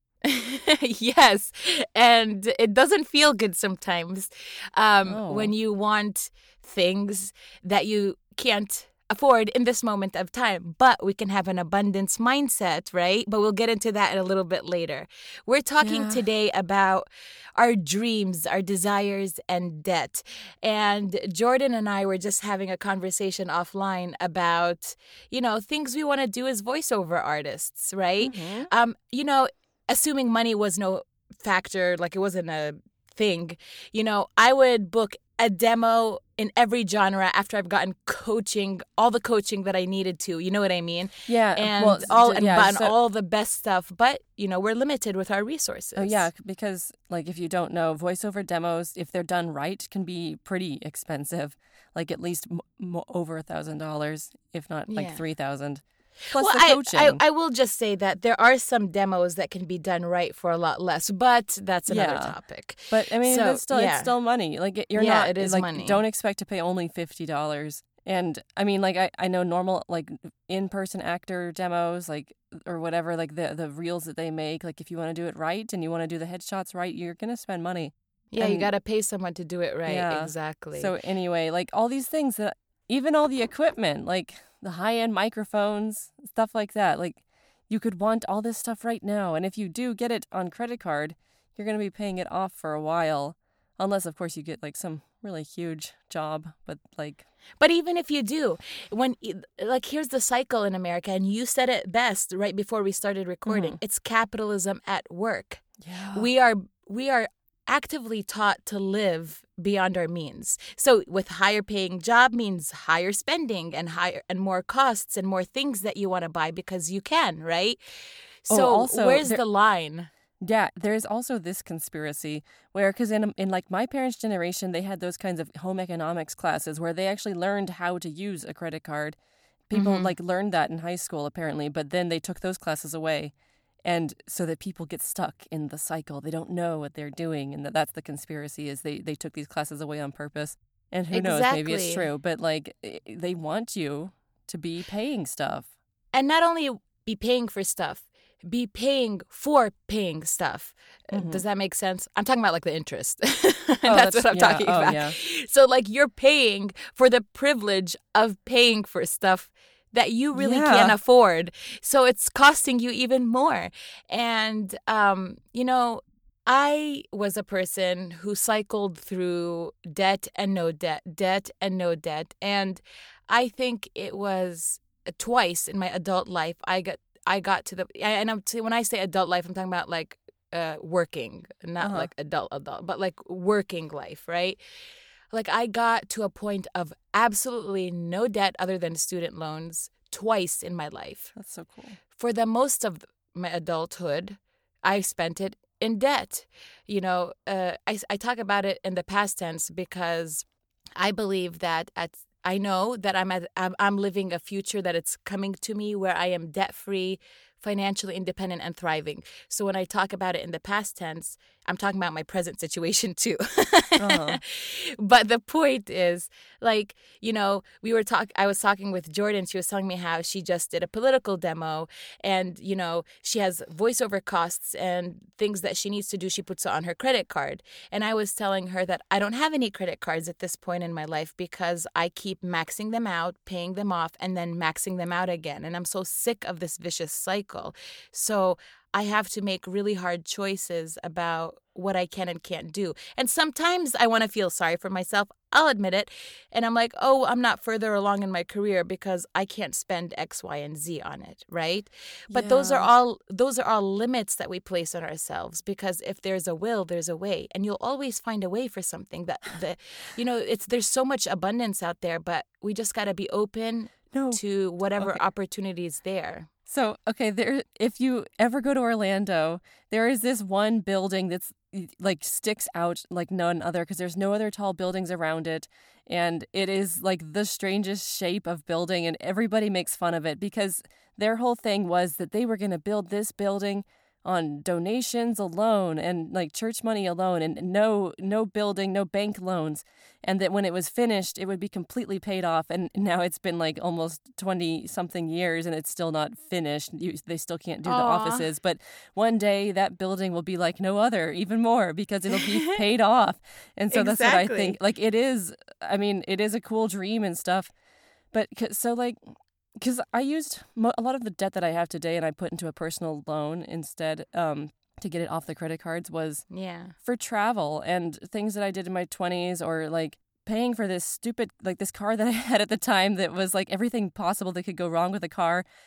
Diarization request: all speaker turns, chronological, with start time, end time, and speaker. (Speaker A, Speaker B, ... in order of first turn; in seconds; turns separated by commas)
Speaker A: 0.2-46.3, Speaker B: 5.1-5.5, Speaker B: 15.8-16.2, Speaker B: 28.2-28.7, Speaker B: 41.3-42.9, Speaker B: 46.0-57.2, Speaker A: 54.9-55.2, Speaker A: 56.2-64.1, Speaker B: 61.9-78.7, Speaker A: 64.9-66.0, Speaker A: 78.3-80.9, Speaker B: 79.8-97.2, Speaker A: 97.6-117.8, Speaker B: 103.5-103.8, Speaker B: 105.8-106.3, Speaker A: 118.4-120.1, Speaker B: 118.5-119.4, Speaker B: 120.4-129.2, Speaker B: 129.7-133.3, Speaker A: 129.7-130.1, Speaker B: 133.8-145.7, Speaker A: 141.1-142.1, Speaker A: 146.1-184.6, Speaker B: 151.1-151.4, Speaker B: 153.8-155.2, Speaker B: 160.3-161.0, Speaker B: 181.8-182.1, Speaker A: 185.3-191.3, Speaker B: 191.3-192.0, Speaker A: 192.1-200.5, Speaker A: 201.0-266.5, Speaker B: 214.0-214.4, Speaker B: 252.3-252.9, Speaker B: 264.1-265.2, Speaker B: 266.7-307.7, Speaker A: 297.9-298.5, Speaker A: 302.3-302.8, Speaker A: 303.9-304.8, Speaker B: 308.3-316.5, Speaker A: 316.5-317.0, Speaker B: 317.0-325.6